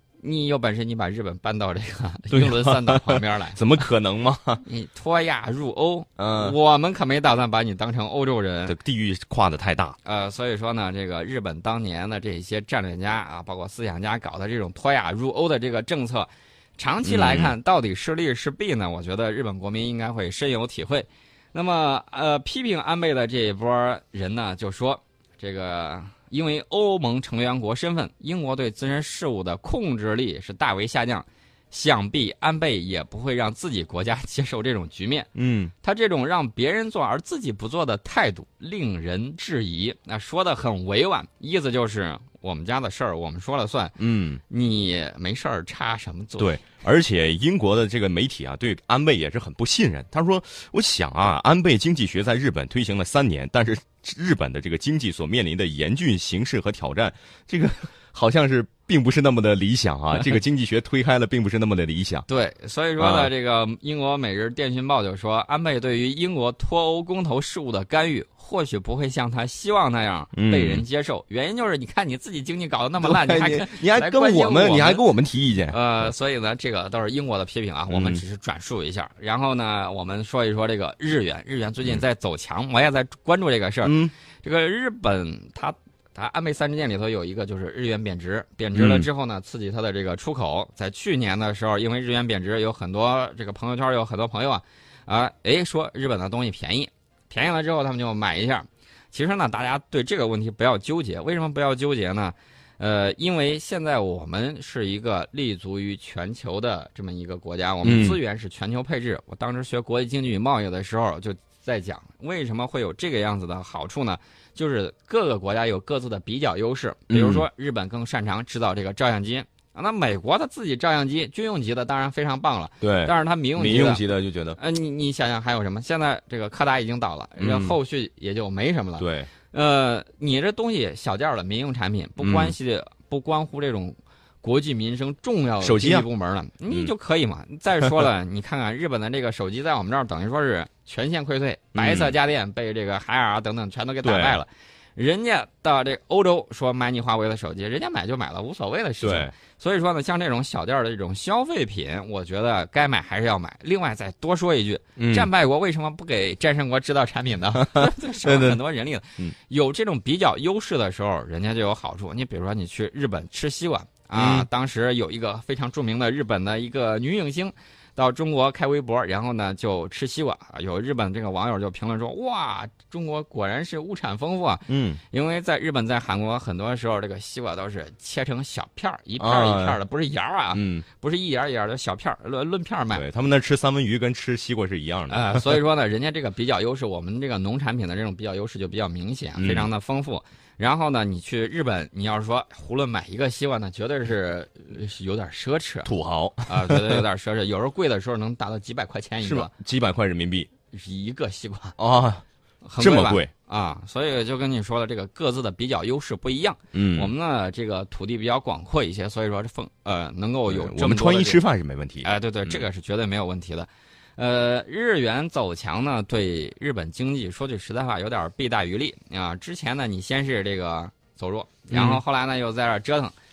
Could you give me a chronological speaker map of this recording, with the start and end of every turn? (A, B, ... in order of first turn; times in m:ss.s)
0:00.2-0:03.6 A
0:02.3-0:04.6 B
0:04.6-0:08.8 A
0:06.2-0:06.6 B
0:08.7-0:10.0 B
0:10.0-0:35.3 A
0:17.0-0:17.5 B
0:35.4-0:35.7 B
0:35.8-0:44.0 A
0:44.0-0:44.4 B
0:44.5-0:46.6 A
0:46.4-1:02.3 B
1:02.3-1:15.0 A
1:03.0-1:03.3 B
1:10.4-1:10.8 B
1:13.0-1:15.8 B
1:15.7-2:04.1 A
1:17.9-1:18.2 B
1:23.8-1:24.1 B
1:28.8-1:29.1 B
1:47.8-1:48.2 B
1:57.1-1:57.5 B
2:02.8-2:04.6 B
2:04.6-3:03.0 A
2:07.4-2:07.8 B
2:09.0-2:09.3 B
2:12.2-2:12.6 B
2:15.6-2:16.1 B
2:17.8-2:18.1 B
2:21.8-2:22.2 B
2:24.0-2:24.4 B
2:29.0-2:29.3 B
2:35.0-2:35.3 B
2:37.6-2:38.6 B
2:44.1-2:44.5 B
2:54.7-2:55.0 B
2:59.2-2:59.8 B
3:00.5-3:00.8 B
3:02.9-3:05.6 B
3:05.1-3:15.9 A
3:09.4-3:09.7 B
3:15.8-3:17.0 B
3:16.5-3:19.5 A
3:19.2-3:20.5 B
3:20.7-3:21.8 A
3:21.8-3:22.2 B
3:22.6-3:31.4 A
3:22.8-3:23.3 B
3:26.7-3:27.1 B
3:30.5-3:32.6 B
3:32.0-3:43.1 A
3:41.7-3:42.0 B